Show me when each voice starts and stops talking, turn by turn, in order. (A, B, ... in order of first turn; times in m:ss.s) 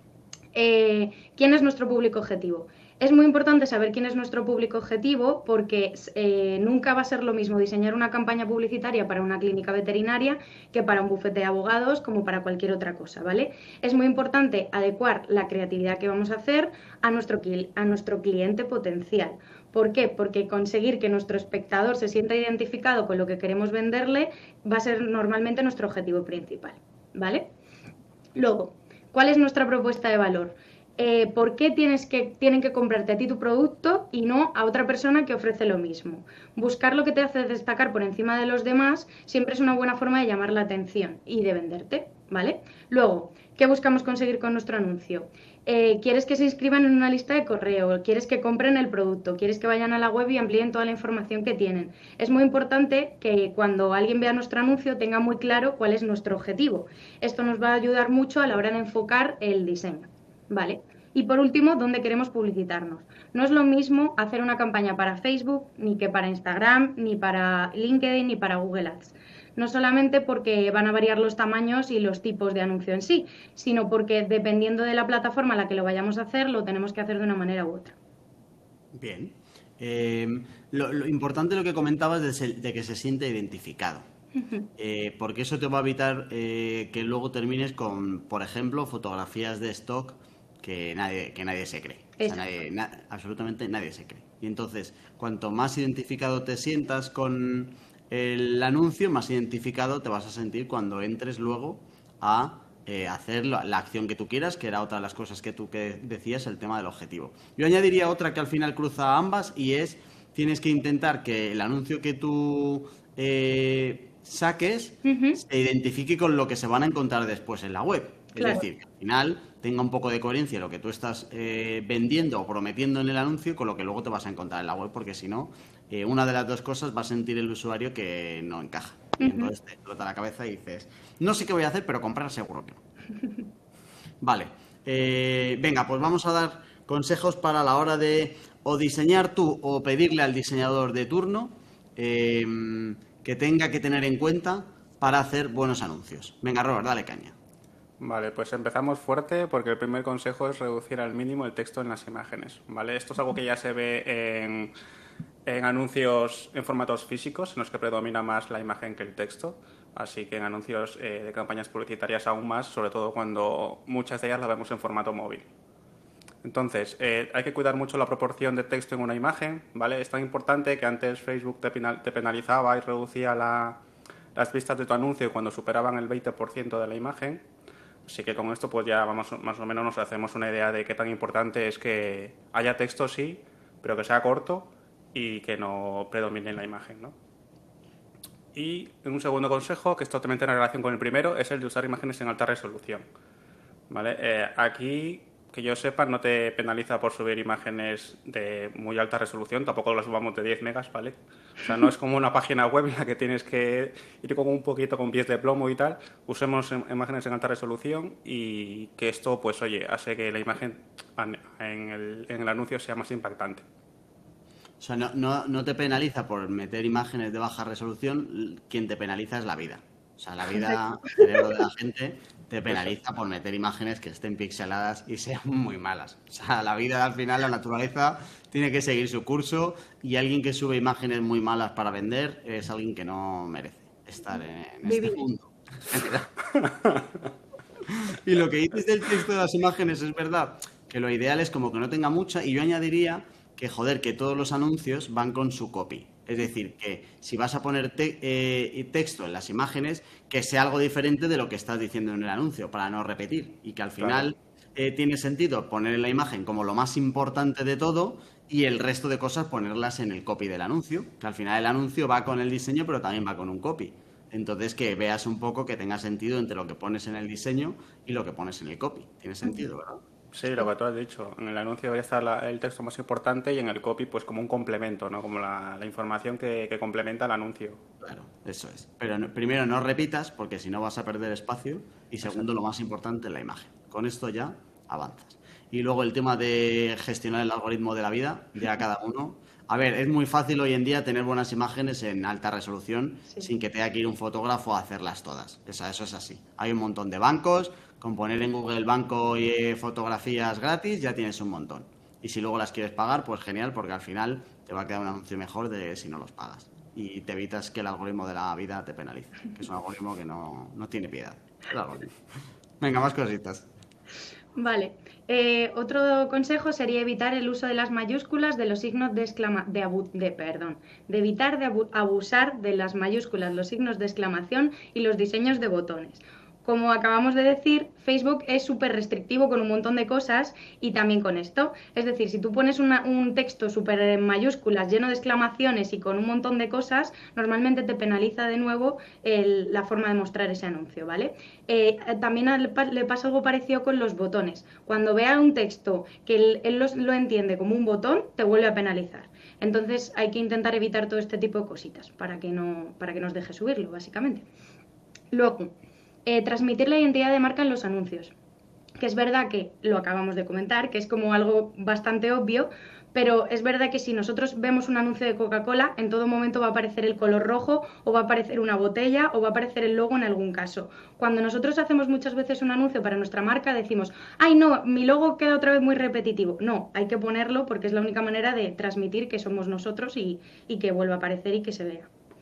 0:00.5-0:27.5 A
0:28.3-1:18.0 A
1:18.9-1:24.0 B
1:24.4-1:24.7 A
1:24.8-2:12.8 B
1:55.0-1:55.4 A
1:58.4-1:58.6 A
2:09.2-2:09.5 A
2:14.2-2:27.4 B
2:28.0-2:34.7 C
2:35.5-2:45.5 C
2:46.4-2:53.8 C
2:54.3-2:57.4 C
2:58.0-3:07.2 C
3:08.5-3:13.0 C
3:13.9-3:33.6 C
3:34.8-3:56.3 B
3:40.7-3:41.2 A
3:54.8-3:55.2 A
3:56.6-3:57.0 C
3:57.9-4:30.0 B
4:14.0-4:14.3 C
4:30.3-4:37.8 C
4:38.0-5:12.2 B
5:12.8-5:13.7 B
5:14.6-5:54.4 A
5:55.3-5:55.7 A
5:56.2-5:58.3 A
5:59.0-6:22.1 A